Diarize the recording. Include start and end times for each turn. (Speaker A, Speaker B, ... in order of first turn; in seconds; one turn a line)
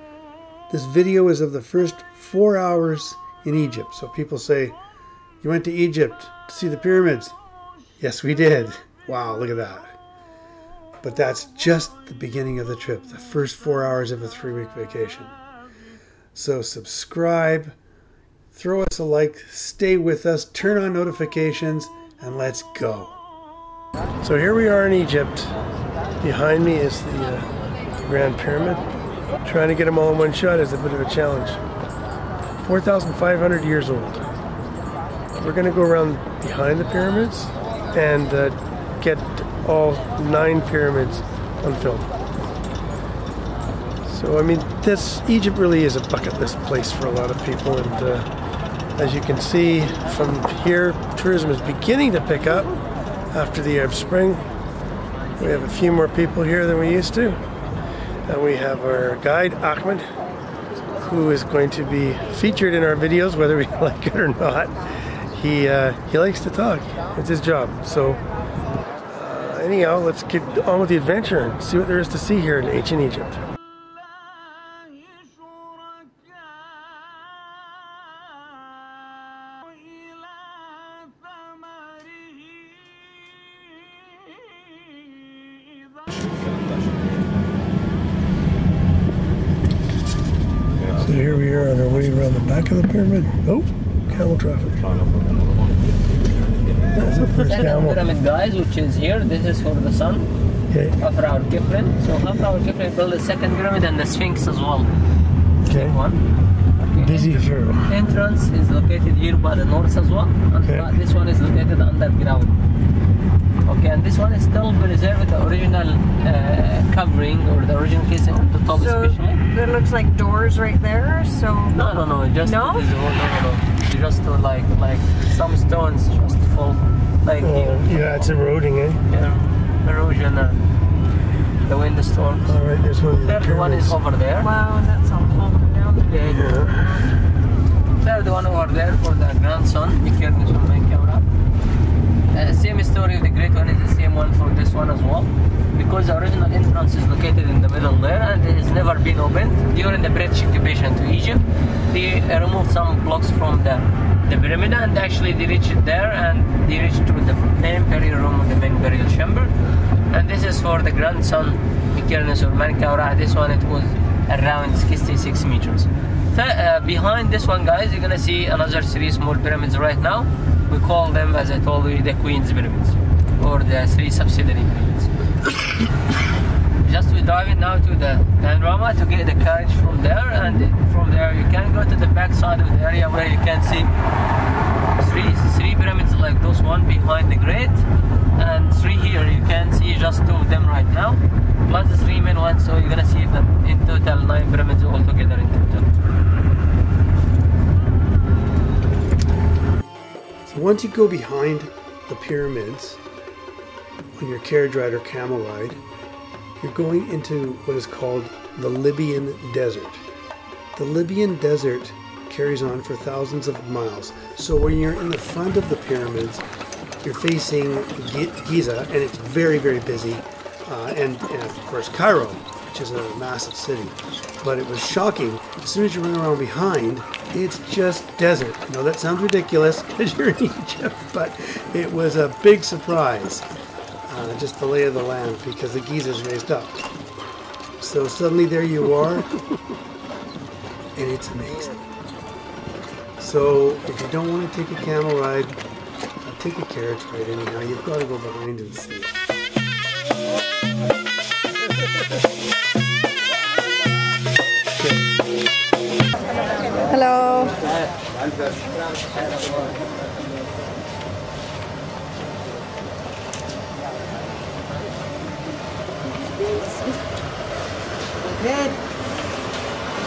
Speaker A: 0.7-4.8
Speaker A: 5.4-7.4
Speaker A: 8.0-9.9
Speaker A: 11.0-15.4
Speaker A: 16.4-17.8
Speaker A: 18.5-23.2
Speaker A: 24.2-25.6
Speaker A: 26.2-27.5
Speaker A: 28.0-28.9
Speaker A: 29.4-31.6
Speaker A: 32.6-34.2
Speaker A: 35.4-42.1
Speaker A: 44.0-48.3
Speaker A: 49.0-52.7
Speaker A: 53.3-54.5
Speaker A: 55.4-57.4
Speaker A: 58.3-60.1
Speaker A: 61.0-68.2
Speaker A: 69.1-73.4
Speaker A: 90.9-95.0
Speaker A: 97.0-98.0
Speaker B: 97.1-100.3
Speaker A: 100.7-101.0
Speaker B: 101.0-104.9
Speaker A: 105.6-106.0
Speaker B: 105.7-106.2
Speaker B: 106.8-112.6
Speaker A: 107.0-108.0
Speaker A: 110.6-110.9
Speaker B: 113.7-119.4
Speaker C: 118.8-121.8
Speaker B: 121.7-128.3
Speaker C: 122.4-122.9
Speaker A: 127.4-129.0
Speaker B: 129.1-130.6
Speaker B: 131.7-132.6
Speaker A: 132.5-134.0
Speaker B: 133.1-134.5
Speaker C: 134.4-136.0
Speaker B: 136.1-136.4
Speaker A: 136.2-137.2
Speaker B: 138.0-141.3
Speaker B: 142.3-159.5
Speaker B: 160.1-175.1
Speaker B: 176.8-183.9
Speaker B: 185.0-195.9
Speaker A: 200.5-203.0
Speaker A: 204.2-205.8
Speaker A: 206.6-210.0
Speaker A: 210.8-216.4
Speaker A: 217.0-233.5
Speaker A: 234.1-236.8
Speaker A: 237.8-239.3
Speaker A: 240.9-241.9
Speaker A: 243.2-245.6
Speaker A: 246.2-249.2
Speaker C: 256.9-257.6
Speaker B: 257.6-258.0
Speaker B: 258.6-260.2